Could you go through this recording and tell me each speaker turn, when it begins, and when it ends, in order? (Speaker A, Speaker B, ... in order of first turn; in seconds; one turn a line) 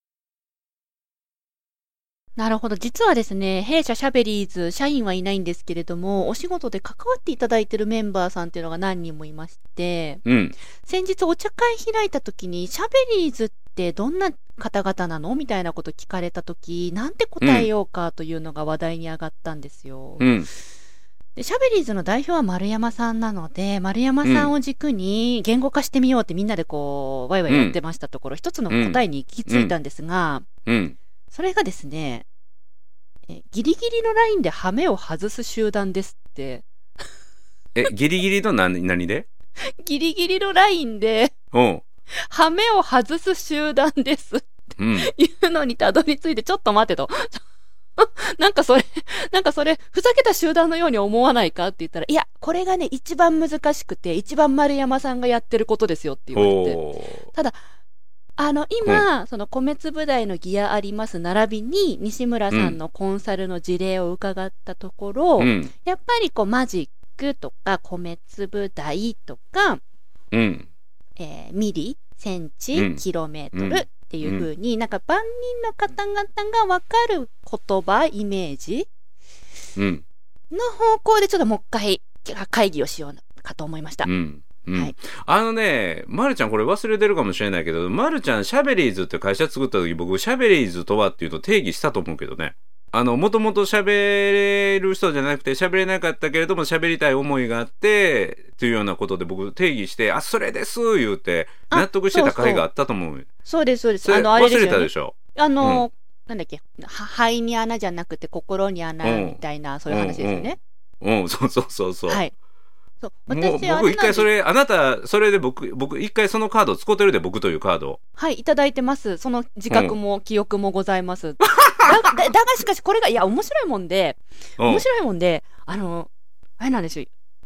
Speaker A: 2.4-20.3
Speaker B: 10.2-10.6
Speaker B: 17.4-17.7
Speaker B: 20.2-20.5
Speaker A: 21.4-30.5
Speaker B: 24.2-24.5
Speaker B: 27.5-27.8
Speaker B: 28.7-29.7
Speaker B: 30.6-31.0
Speaker A: 31.3-32.3
Speaker A: 33.3-36.6
Speaker B: 37.8-39.3
Speaker A: 39.6-41.3
Speaker B: 41.5-41.9
Speaker A: 42.1-47.4
Speaker B: 44.8-45.1
Speaker A: 48.0-56.8
Speaker B: 56.3-57.3
Speaker A: 58.4-69.8
Speaker B: 62.5-62.8
Speaker B: 65.4-65.7
Speaker B: 70.3-70.7
Speaker A: 71.2-78.9
Speaker B: 72.8-74.5
Speaker B: 79.8-80.0
Speaker A: 80.5-84.1
Speaker B: 84.0-103.3
Speaker A: 101.7-102.6
Speaker A: 103.5-110.6
Speaker B: 104.0-105.9
Speaker B: 109.0-112.2
Speaker A: 112.1-112.3
Speaker A: 113.0-114.3
Speaker B: 113.3-118.0
Speaker A: 118.2-127.1
Speaker B: 119.7-120.0
Speaker B: 121.6-121.9
Speaker B: 124.6-124.8